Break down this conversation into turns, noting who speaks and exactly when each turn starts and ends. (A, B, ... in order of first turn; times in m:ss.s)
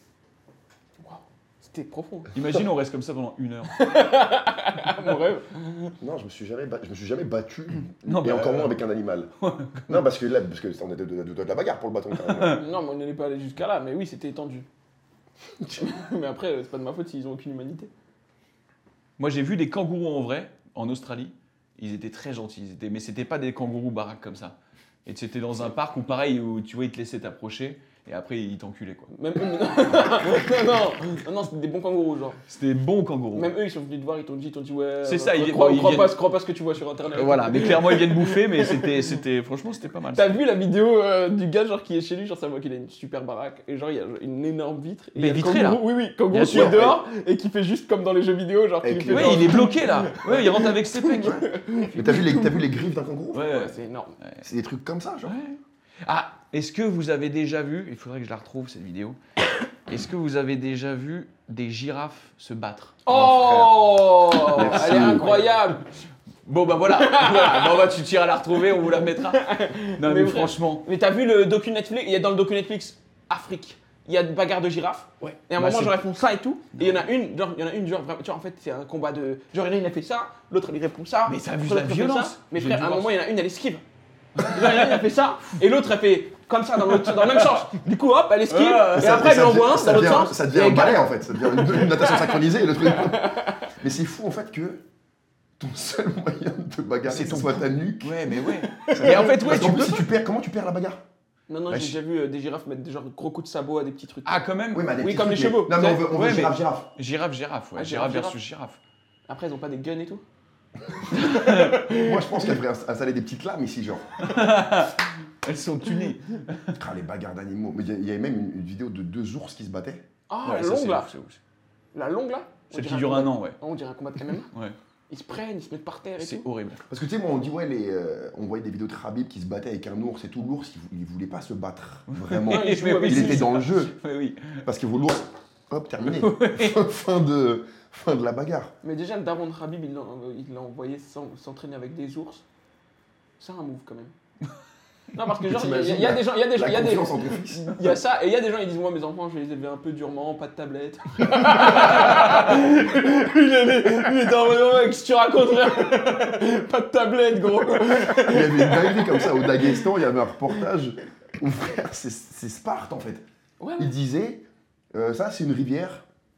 0:01.0-0:02.4 A
0:02.3-0:03.8 B
0:03.7-0:05.9 A
0:06.0-0:09.3 C
0:08.0-0:08.8 B
0:09.4-0:10.0 B
0:09.9-0:12.6 C
0:12.1-0:12.6 B
0:12.5-0:14.7 A
0:15.8-0:17.9 A
0:19.2-0:29.1 B
0:29.1-0:32.4 A
0:32.5-0:33.5 B
0:33.3-0:39.1 A
0:35.0-0:36.2 B
0:37.1-0:40.4 B
0:40.1-0:52.6 A
0:45.2-0:46.9 B
0:46.5-0:47.0 C
0:48.8-0:49.7 C
0:49.1-0:51.5 B
0:51.2-0:53.5 C
0:53.3-0:54.4 B
0:53.4-0:54.2 A
0:54.4-0:55.4 C
0:55.2-0:59.2 B
0:59.9-1:03.0 B
1:03.0-1:05.8 A
1:03.1-1:05.3 C
1:04.5-1:05.7 B
1:06.4-1:10.8 B
1:06.9-1:07.9 A
1:08.9-1:23.8 A
1:15.2-1:16.0 B
1:16.8-1:17.1 B
1:21.3-1:23.2 B
1:24.4-1:25.0 B
1:24.4-1:33.6 A
1:27.0-1:27.5 B
1:28.5-1:29.2 B
1:29.0-1:34.8 C
1:35.6-1:38.2 C
1:37.1-1:40.1 B
1:38.8-1:41.0 C
1:38.8-1:39.3 A
1:41.5-1:44.5 A
1:41.7-1:42.0 C
1:44.2-1:45.0 B
1:44.7-1:46.9 C
1:45.0-1:46.1 A
1:46.1-1:48.8 B
1:47.8-1:48.4 A
1:49.3-1:50.2 A
1:51.1-1:52.5 A
1:51.2-1:51.8 B
1:51.9-1:54.2 C
1:54.2-1:56.8 B
1:56.8-2:00.0 C
2:00.3-2:01.1 A
2:00.4-2:01.4 B
2:01.9-2:04.5 A
2:02.7-2:03.6 B
2:04.3-2:04.8 B
2:05.1-2:06.5 A
2:06.2-2:06.8 B
2:06.9-2:13.9 C
2:12.1-2:14.6 B
2:12.5-2:13.6 A
2:14.6-2:18.7 C
2:16.0-2:16.9 B
2:18.8-2:22.4 A
2:23.4-2:24.1 A
2:25.1-2:39.8 A
2:25.4-2:27.9 C
2:31.8-2:32.5 B
2:38.2-2:43.2 C
2:43.6-2:43.9 A
2:43.8-2:46.0 C